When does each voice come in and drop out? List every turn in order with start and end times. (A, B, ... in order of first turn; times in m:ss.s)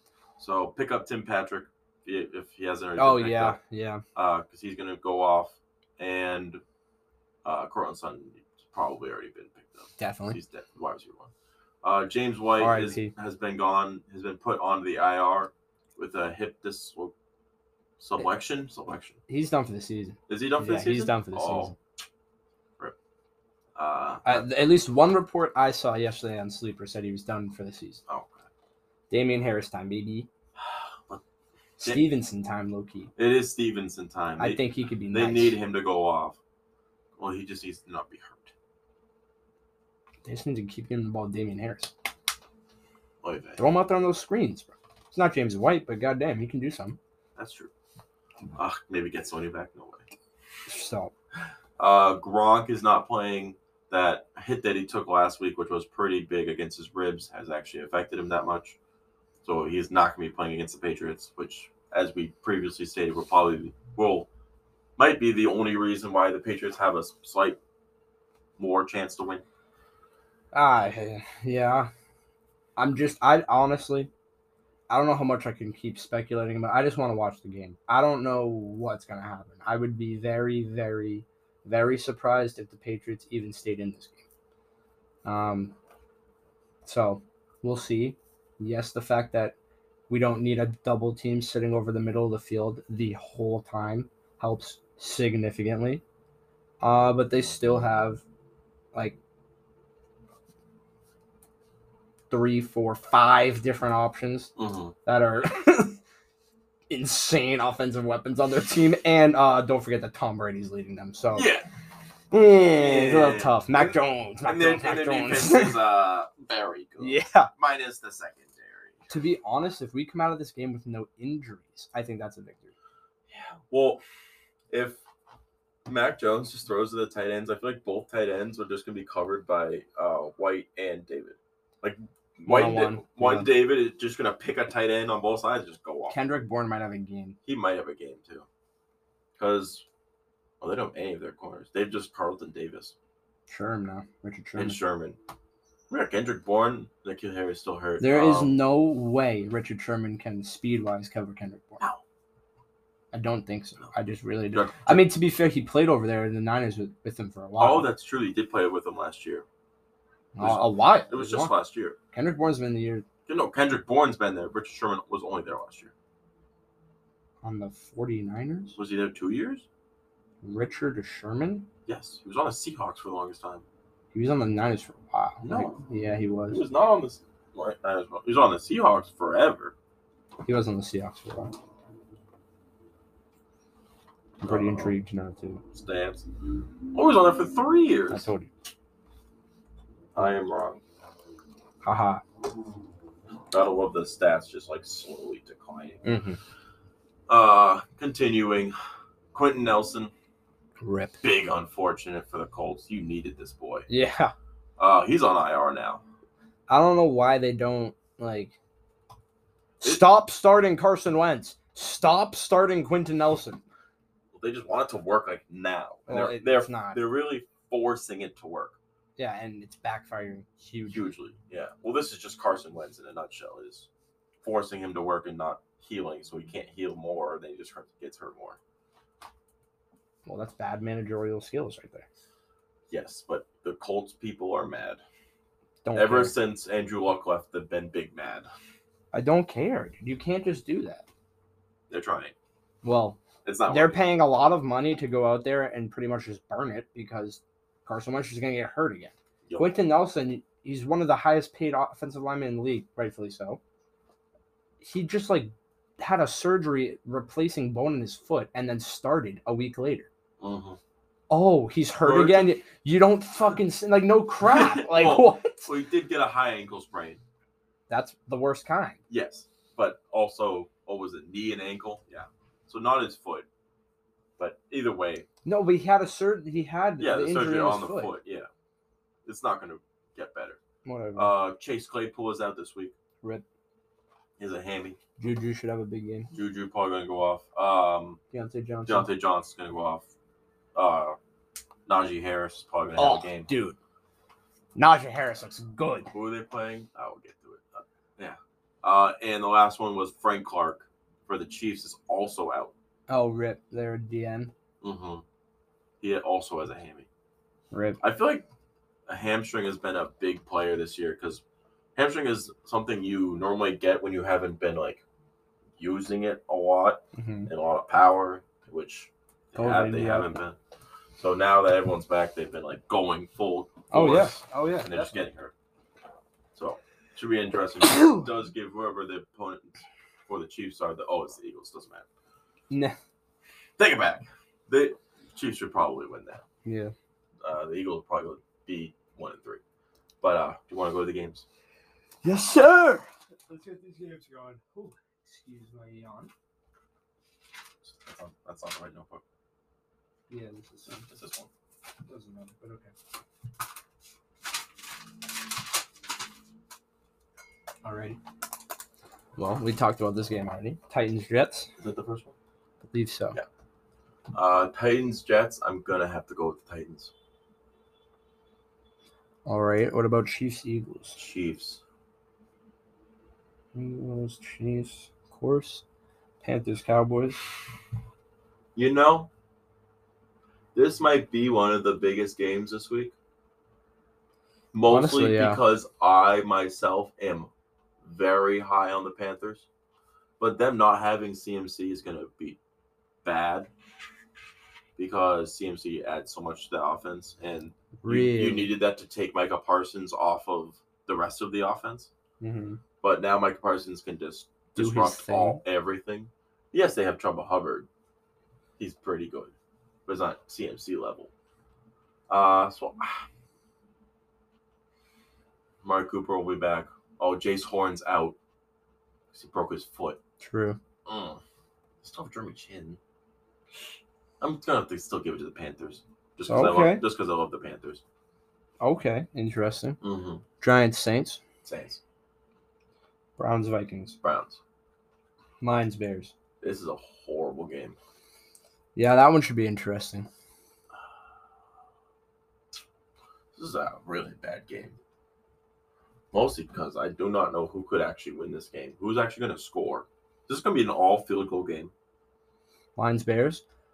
0:00.4-0:03.6 A
0:03.0-0:04.0 B
0:04.1-0:06.6 A
0:07.4-0:11.3 A
0:10.0-0:10.4 B
0:11.8-0:17.1 A
0:12.6-0:13.1 B
0:18.0-0:19.2 A
0:19.3-0:21.8 B
0:20.3-0:21.7 A
0:23.8-0:24.5 A
0:24.2-0:28.0 B
0:28.1-0:28.4 A
0:29.1-0:30.3 B
0:30.6-0:31.2 A
0:31.8-0:33.1 B
0:31.8-0:32.0 A
0:33.2-0:36.4 A
0:34.4-0:35.6 B
0:37.2-0:38.5 A
0:40.2-0:41.9 B
0:43.2-0:43.6 A
0:43.6-0:47.0 B
0:47.4-0:47.7 A
0:48.5-0:50.1 A
0:50.7-0:51.1 B
0:51.8-0:58.8 A
0:59.4-1:04.3 A
1:05.0-1:07.6 A
1:08.6-1:09.4 A
1:10.5-1:11.9 B
1:12.8-1:14.1 B
1:14.9-1:24.2 B
1:25.2-1:25.7 B
1:26.9-1:29.5 B
1:30.1-1:36.0 B
1:36.8-1:38.2 B
1:38.9-1:39.2 B
1:42.3-1:44.5 B
1:44.6-1:44.9 A
1:45.0-1:46.0 B
1:46.9-1:51.5 B
1:51.3-1:51.7 A
1:52.3-1:55.8 B
1:52.7-1:59.1 A
1:57.0-1:57.5 B
1:59.1-2:02.7 B
2:03.3-2:04.0 A
2:04.7-2:05.0 A
2:05.9-2:16.2 A
2:12.4-2:13.5 B
2:16.1-2:17.4 B
2:17.4-2:18.4 A
2:19.4-2:19.9 A
2:20.6-2:22.9 A
2:23.5-2:24.8 B
2:24.5-2:25.2 A
2:25.9-2:28.6 A
2:28.0-2:31.8 B
2:33.1-2:37.9 B
2:34.5-2:35.0 A
2:37.6-2:39.4 A
2:40.3-2:41.5 B
2:40.4-2:42.0 A
2:42.1-2:43.0 B
2:43.3-2:45.9 A
2:47.4-2:48.8 B
2:48.8-2:49.6 A
2:50.4-2:51.7 B
2:51.9-2:53.6 A
2:54.1-2:56.6 B
2:55.4-2:55.8 A
2:56.5-2:59.7 A
3:00.4-3:01.5 B
3:04.4-3:05.6 B
3:04.4-3:04.9 A
3:05.7-3:06.3 A
3:06.9-3:08.3 A
3:08.1-3:08.5 B
3:10.1-3:10.8 A
3:11.8-3:12.2 B
3:13.5-3:16.1 A
3:16.0-3:16.4 B
3:17.3-3:18.7 A
3:19.3-3:20.1 A
3:20.8-3:21.2 B
3:21.2-3:23.9 A
3:23.9-3:24.3 B
3:24.8-3:26.0 A
3:26.7-3:28.6 B
3:29.8-3:33.6 B
3:34.3-3:38.8 A
3:36.1-3:37.0 B
3:39.2-3:41.0 B
3:40.9-3:43.9 A
3:44.4-3:48.6 A
3:50.2-3:52.0 B
3:52.9-3:55.0 A
3:55.8-3:56.3 B
3:55.9-3:58.5 A
3:59.1-4:01.0 B
4:01.9-4:02.3 A
4:02.8-4:13.6 B
4:03.4-4:04.0 A
4:09.4-4:09.7 A
4:14.8-4:20.1 B
4:20.4-4:20.8 A
4:21.3-4:25.7 B
4:22.0-4:22.5 A
4:24.4-4:27.2 A
4:27.9-4:29.0 B
4:29.1-4:33.5 A
4:34.4-4:35.3 A
4:35.4-4:38.1 B
4:37.0-4:38.5 A
4:39.2-4:40.6 A
4:40.8-4:41.3 B
4:41.2-4:42.9 A
4:44.4-4:45.0 A
4:45.2-4:46.3 B
4:46.3-4:48.2 A
4:48.3-4:49.1 B
4:48.9-4:50.1 A
4:50.7-4:51.2 A
4:51.9-4:53.5 A
4:53.0-4:53.8 B
4:54.7-4:56.1 B
4:56.1-5:02.7 A
5:03.1-5:04.5 B
5:04.8-5:05.2 A
5:06.0-5:07.1 A
5:07.7-5:08.0 B
5:08.0-5:08.4 A
5:09.1-5:11.4 A
5:12.0-5:15.0 A
5:15.8-5:20.6 A
5:17.1-5:17.5 B
5:19.6-5:20.3 B
5:21.2-5:25.5 A
5:23.9-5:25.2 B
5:26.5-5:32.0 A
5:27.8-5:28.3 B
5:32.7-5:33.0 B
5:33.8-5:36.4 A
5:36.6-5:36.9 B
5:37.4-5:39.6 A
5:40.2-5:41.4 A
5:42.2-5:46.3 B
5:47.8-5:49.2 A
5:50.3-5:51.1 B
5:51.1-5:51.5 A
5:52.1-5:52.9 B
5:57.8-5:58.2 B
5:59.4-6:01.7 B
6:01.8-6:02.3 A
6:02.8-6:03.4 B
6:04.3-6:07.1 A
6:09.4-6:11.2 B
6:11.1-6:11.8 A
6:13.7-6:15.8 B
6:16.4-6:17.4 B
6:18.7-6:19.3 A
6:20.7-6:23.1 A
6:24.7-6:27.5 A
6:24.9-6:25.6 B
6:28.0-6:29.7 A
6:30.4-6:32.6 A
6:33.2-6:33.7 A
6:35.0-6:42.1 A
6:38.0-6:38.7 B
6:42.4-6:42.8 B
6:43.0-6:47.9 A
6:44.8-6:45.6 B
6:48.8-6:49.5 A
6:50.0-6:51.3 A
6:52.3-6:53.2 A
6:55.8-6:58.4 A
6:59.3-7:00.2 A
7:00.4-7:00.8 B
7:01.0-7:01.4 A
7:02.0-7:03.0 A
7:04.4-7:08.0 A
7:06.5-7:07.0 B
7:08.8-7:10.0 B
7:10.0-7:10.4 A
7:10.6-7:11.4 B
7:11.6-7:12.0 A
7:13.4-7:14.2 B
7:14.2-7:14.6 A
7:15.6-7:16.3 B
7:16.6-7:18.0 A
7:18.9-7:20.3 B
7:23.5-7:25.0 A
7:26.3-7:31.9 A
7:33.0-7:33.6 B